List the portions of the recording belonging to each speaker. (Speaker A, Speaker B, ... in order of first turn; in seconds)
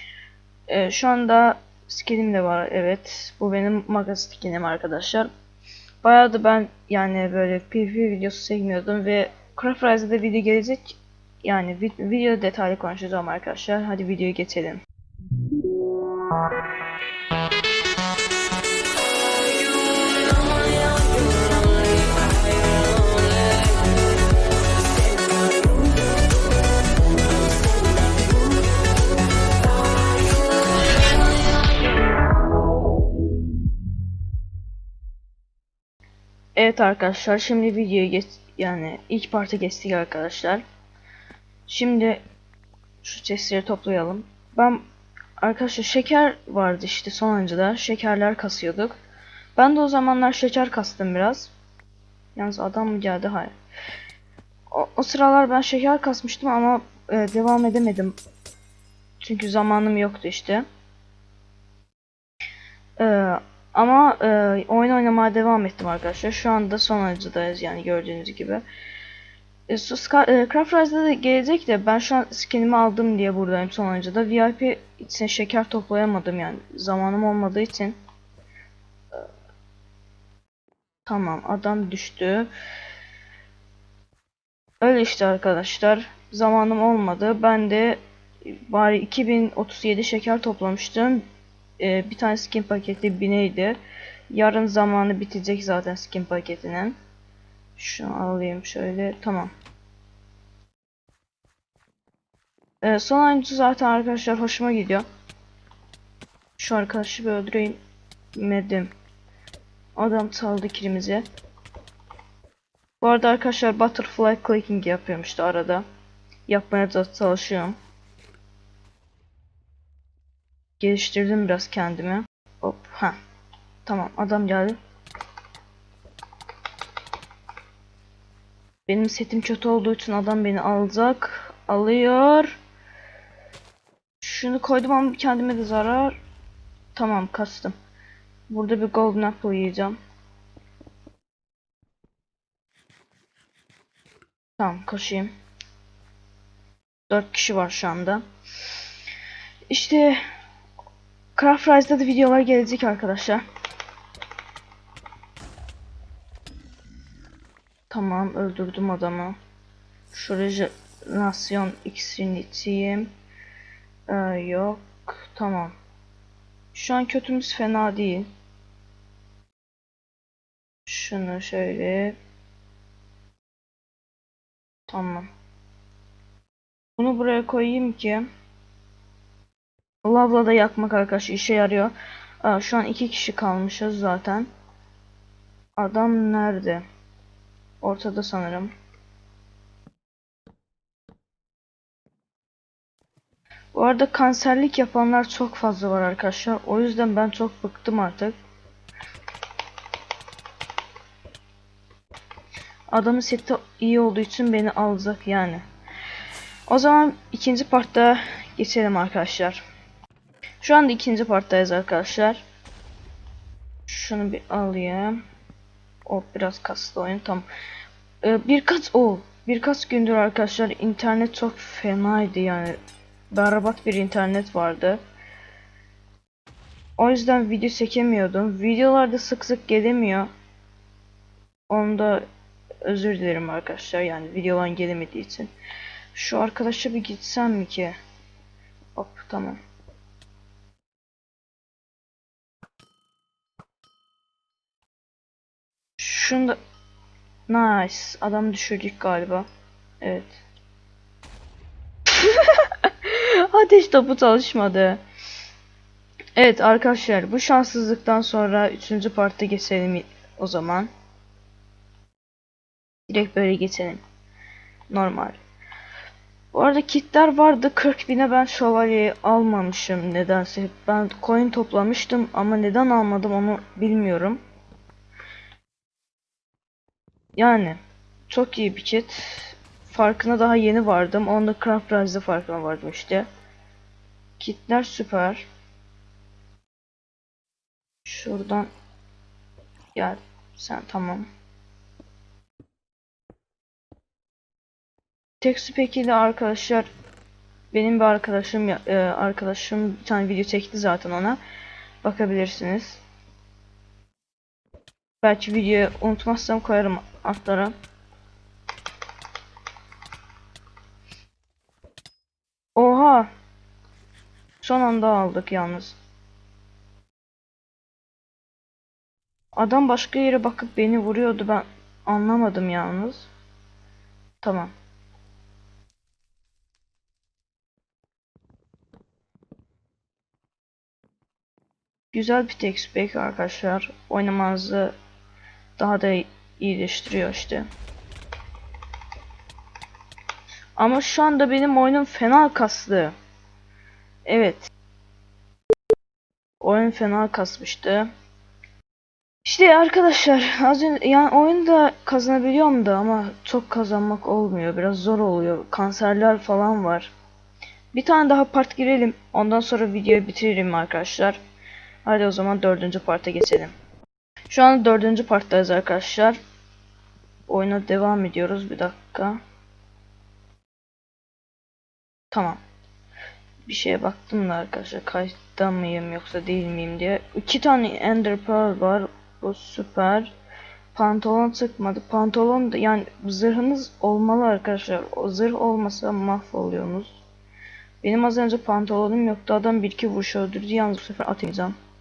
Speaker A: 0.7-5.3, 6.0-14.8, 36.5-40.6, 41.7-42.2, 43.0-44.8, 45.4-49.0, 49.5-51.5, 52.3-53.5, 54.7-58.2, 59.2-60.6, 63.0-68.6, 69.7-78.0, 81.0-82.5, 84.8-91.2, 91.8-93.8, 94.3-97.0, 97.8-99.5, 102.8-105.0, 106.6-107.8, 108.3-108.9, 110.0-111.2, 113.0-115.8, 116.5-117.8, 120.8-123.2, 123.8-124.8, 128.9-132.6, 134.2-136.2, 136.9-137.7, 138.5-139.9, 144.6-145.3, 147.1-148.2, 149.7-150.2, 151.3-153.4, 157.9-159.3, 160.1-163.1, 164.1-165.7, 166.7-168.3, 170.8-172.2, 174.9-175.3, 177.0-178.2, 180.0-184.5, 185.8-186.8, 187.8-188.7, 193.7-198.3, 202.9-205.6, 206.7-209.6, 210.6-212.4, 213.9-215.2, 216.0-217.5, 218.2-222.8, 223.3-225.0, 227.0-230.3, 231.7-232.2, 232.8-235.5, 236.1-237.9, 238.9-239.6, 246.0-246.6, 247.5-249.5, 250.0-250.4, 252.1-255.0, 256.4-260.9, 263.1-264.0, 264.9-265.4, 266.5-274.4, 277.4-283.3, 284.4-285.5, 288.0-288.7, 289.9-291.3, 295.4-296.9, 297.7-301.4, 302.0-303.0, 305.2-307.7, 312.8-313.3, 314.6-316.0, 319.5-323.3, 324.4-324.7, 332.1-334.9, 335.8-337.7, 340.8-343.1, 344.2-344.7, 346.6-348.1, 349.4-357.1, 357.9-361.4, 362.0-363.7, 364.5-366.4, 367.5-369.4, 372.3-372.6, 373.6-380.3, 380.9-387.1, 388.0-391.7